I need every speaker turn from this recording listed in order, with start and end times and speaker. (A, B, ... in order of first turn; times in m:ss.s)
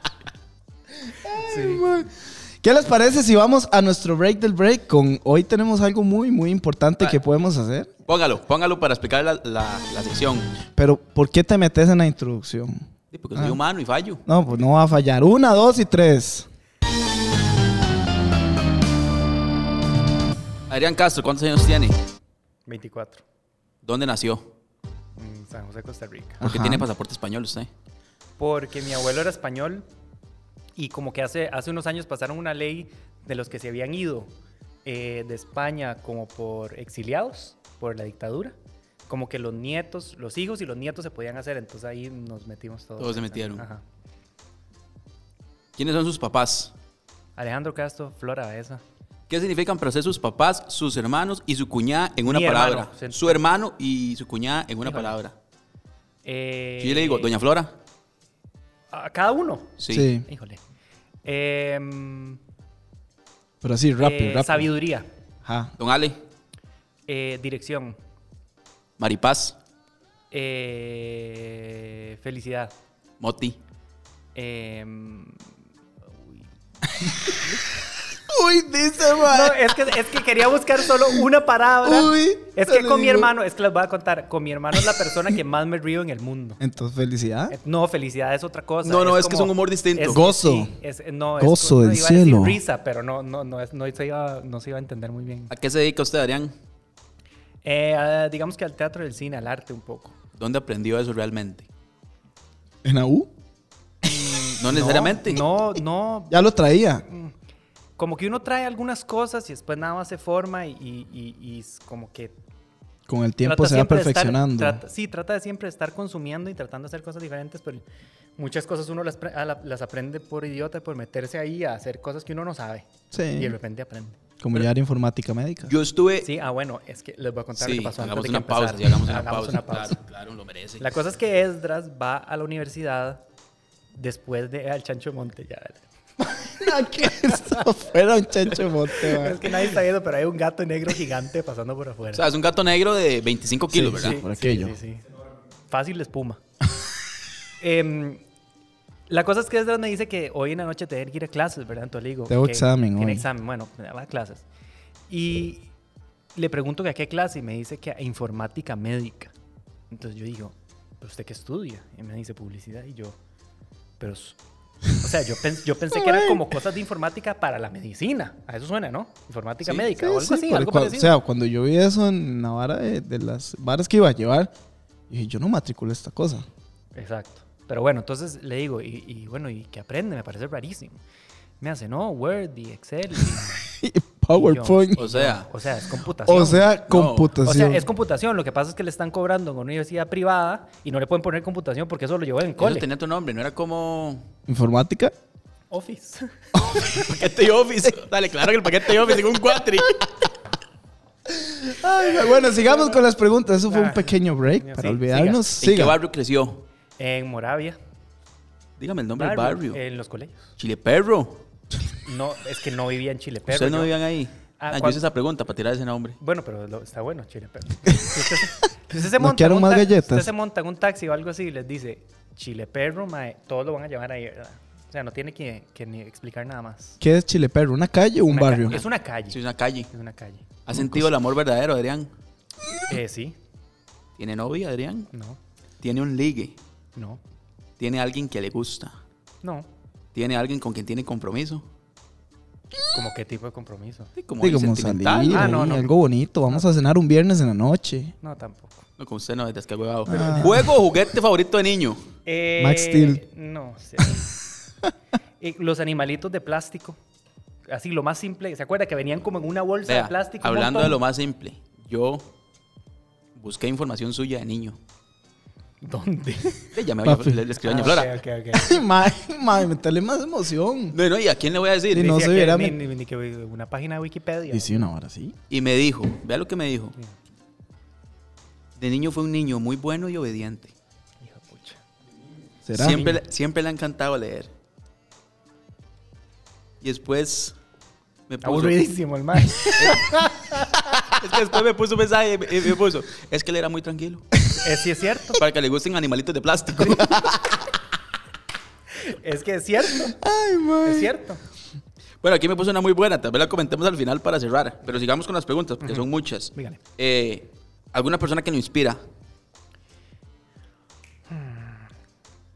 0:01.1-0:08.0 A
0:01.4-0:01.8 B
0:08.1-0:10.5 C
0:10.7-0:12.8 A
0:13.1-0:14.2 C
0:14.3-0:16.5 A
0:20.7-0:22.0 C
0:22.6-0:23.2 B
0:23.8-0:24.4 C
0:25.2-0:26.4 B
0:26.4-0:26.9 A
0:26.4-0:27.7 C
0:28.4-0:29.8 B
0:30.8-0:34.3 B
0:34.8-0:38.5 B
0:39.1-0:43.8 B
0:43.0-0:43.6 C
0:45.8-0:46.7 C
0:47.4-0:48.8 B
0:49.3-0:55.3 C
0:52.2-0:53.4 B
0:54.8-0:55.2 B
0:56.2-0:57.3 B
0:56.8-0:57.7 C
0:58.9-1:00.6 B
0:59.8-1:00.1 C
0:59.9-1:00.3 A
1:01.2-1:02.4 B
1:03.6-1:04.7 A
1:04.0-1:05.1 B
1:05.4-1:05.7 A
1:05.8-1:06.2 C
1:07.1-1:08.0 B
1:09.0-1:09.6 C
1:10.3-1:12.7 B
1:13.2-1:13.6 C
1:14.3-1:15.4 B
1:16.1-1:16.4 B
1:17.0-1:17.4 A
1:18.3-1:19.9 A
1:19.2-1:26.6 B
1:21.8-1:23.3 A
1:26.6-1:27.5 A
1:27.5-1:35.5 B
1:28.8-1:30.2 C
1:30.0-1:30.7 A
1:31.4-1:32.6 A
1:35.5-1:36.5 C
1:37.6-1:40.1 B
1:40.4-1:41.7 C
1:42.8-1:43.3 A
1:44.0-1:46.4 B
1:44.6-1:45.4 C
1:46.3-1:47.0 A
1:47.0-1:47.3 B
1:48.0-1:52.3 B
1:53.1-1:54.8 A
1:53.4-1:57.8 B
1:58.4-2:04.2 B
2:03.1-2:03.5 A
2:04.4-2:05.7 A
2:05.7-2:06.3 C
2:06.2-2:10.0 B
2:07.6-2:10.9 C
2:10.8-2:13.2 B
2:13.9-2:17.6 B
2:16.4-2:19.5 A
2:18.9-2:22.2 B
2:22.1-2:24.2 C
2:23.7-2:24.8 A
2:23.9-2:25.1 B
2:25.7-2:26.4 B
2:27.6-2:28.2 B
2:29.1-2:34.4 B
2:32.3-2:33.2 A
2:35.1-2:35.7 B
2:36.3-2:39.3 B
2:39.9-2:43.2 B
2:44.0-2:44.4 B
2:44.9-2:51.1 B
2:45.9-2:46.4 A
2:49.9-2:54.5 A
2:55.1-2:56.4 A
2:56.9-3:01.0 B
3:01.6-3:03.7 B
3:03.6-3:05.0 A
3:04.3-3:06.7 B
3:05.0-3:05.5 C
3:06.2-3:07.8 A
3:06.9-3:07.3 C
3:07.4-3:12.9 B
3:12.6-3:14.3 C
3:14.5-3:15.1 A
3:15.7-3:16.8 B
3:16.5-3:17.0 A
3:16.8-3:20.1 C
3:21.3-3:26.0 A
3:22.0-3:23.0 B
3:23.6-3:25.4 B
3:25.6-3:26.6 C
3:27.0-3:27.8 B
3:28.8-3:29.8 C
3:29.2-3:30.5 B
3:30.6-3:31.4 C
3:32.0-3:33.9 B
3:33.5-3:36.2 C
3:34.6-3:35.0 B
3:36.2-3:47.0 B
3:39.0-3:40.3 A
3:47.0-3:48.8 A
3:48.3-3:50.4 B
3:48.7-3:49.9 C
3:50.6-3:52.1 C
3:50.7-3:51.1 A
3:52.9-3:53.4 B
3:54.2-3:55.1 C
3:55.1-3:55.4 B
3:55.8-3:56.6 C
3:56.9-3:57.2 B
3:57.8-3:59.0 C
3:59.4-3:59.7 B
4:00.1-4:01.6 C
4:02.9-4:04.1 B
4:04.2-4:05.7 C
4:04.4-4:08.1 A
4:05.3-4:05.9 B
4:08.2-4:08.8 B
4:09.0-4:12.0 C
4:10.1-4:10.7 A
4:10.2-4:10.4 B
4:12.2-4:14.3 B
4:12.6-4:13.2 A
4:15.4-4:17.0 B
4:17.7-4:21.0 B
4:19.8-4:22.2 C
4:23.4-4:24.8 C
4:25.8-4:26.8 B
4:26.7-4:28.1 C
4:27.0-4:27.4 A
4:27.6-4:28.8 B
4:28.5-4:31.0 A
4:30.9-4:32.1 C
4:31.9-4:32.8 A
4:31.9-4:34.9 B
4:34.5-4:35.4 A
4:35.5-4:36.9 C
4:38.8-4:40.7 C
4:41.2-4:41.8 B
4:42.6-4:43.2 A
4:42.7-4:44.5 C
4:46.8-4:47.6 C
4:48.3-4:48.8 C
4:48.4-4:51.0 B
4:49.7-4:50.1 C
4:51.1-4:54.2 C
4:54.5-4:55.4 B
4:55.4-4:57.2 C
4:56.8-4:57.1 B
4:56.9-4:57.4 A
4:58.9-5:00.2 B
5:00.0-5:01.1 A
5:00.8-5:01.4 B
5:02.2-5:09.0 C
5:05.8-5:06.8 B
5:11.3-5:11.9 B